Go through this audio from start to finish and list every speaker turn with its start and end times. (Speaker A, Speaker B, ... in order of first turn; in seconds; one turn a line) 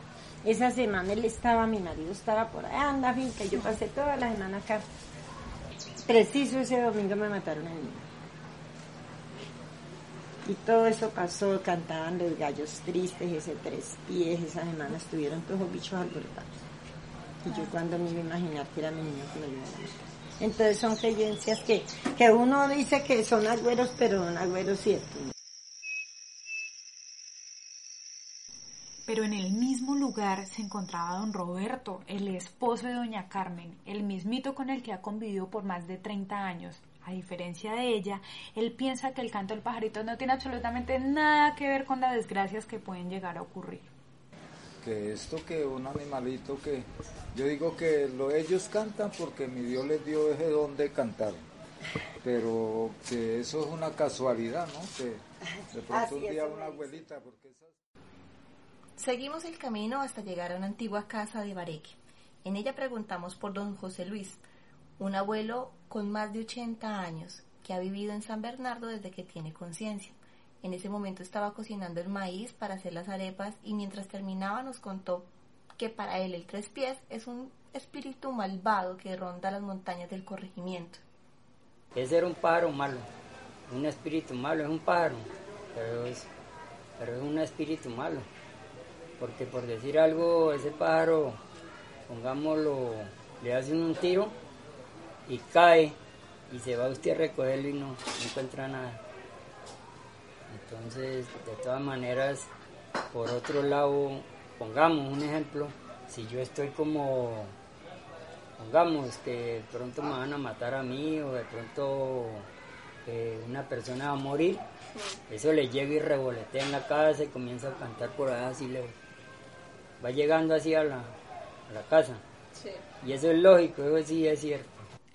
Speaker A: 0.4-4.8
Speaker A: 6.0-8.0
Speaker A: 10.4-16.5
Speaker A: 17.4-25.3
Speaker B: 29.1-43.9
Speaker C: 44.8-51.5
Speaker C: 52.2-55.2
Speaker A: 55.7-57.1
Speaker C: 55.7-57.7
Speaker D: 59.0-64.4
Speaker D: 65.0-81.0
Speaker E: 81.9-83.1
Speaker E: 83.7-86.3
Speaker E: 87.0-88.3
Speaker E: 89.2-91.4
Speaker E: 92.1-94.3
Speaker E: 95.2-96.0
Speaker E: 96.5-99.0
Speaker E: 100.5-102.5
Speaker E: 103.1-107.5
Speaker E: 108.6-112.5
Speaker E: 113.0-114.6
Speaker E: 115.3-118.9
Speaker E: 120.0-121.1
Speaker E: 121.7-122.2
Speaker E: 123.0-124.8